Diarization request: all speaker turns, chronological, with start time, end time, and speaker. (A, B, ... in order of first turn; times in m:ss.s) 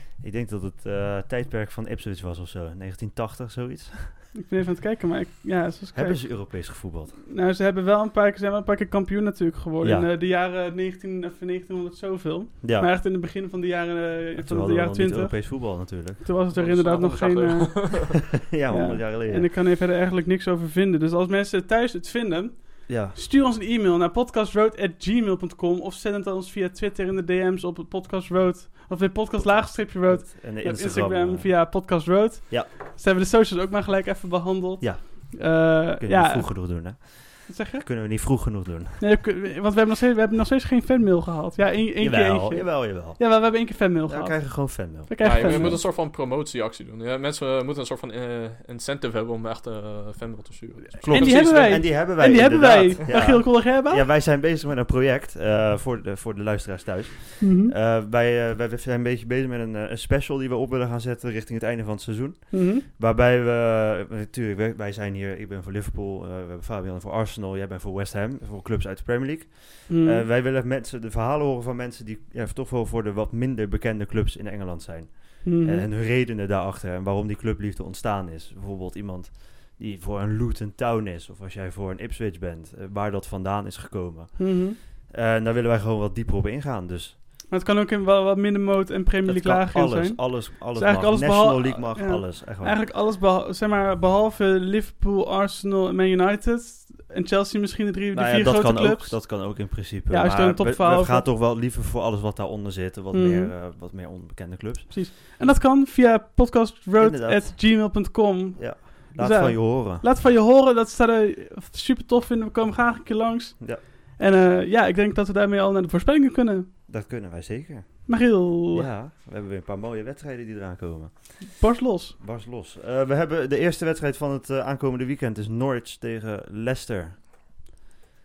0:00.2-0:04.3 A
0:04.3-0:36.9 B
0:05.9-0:07.2 A
0:09.8-0:10.1 A
0:12.6-0:12.9 A
0:14.4-0:16.2 A
0:16.5-0:18.2 C
0:18.5-0:19.5 A
0:22.9-0:23.2 A
0:29.4-0:31.8 A
0:34.8-0:39.0 A
0:37.4-0:45.8 B
0:42.0-0:45.8 A
0:45.2-0:52.0 C
0:51.0-0:54.1 B
0:51.0-1:27.1 A
0:57.4-0:57.7 B
1:02.5-1:02.9 B
1:09.9-1:10.2 B
1:15.4-1:15.9 B
1:24.4-1:24.8 B
1:27.5-1:41.3 B
1:29.2-1:32.8 A
1:38.1-1:44.9 A
1:43.1-1:43.5 B
1:44.9-1:56.7 B
1:47.0-1:47.9 A
1:48.6-1:50.1 A
1:56.9-2:07.2 A
1:58.1-1:58.9 B
2:01.4-2:02.2 B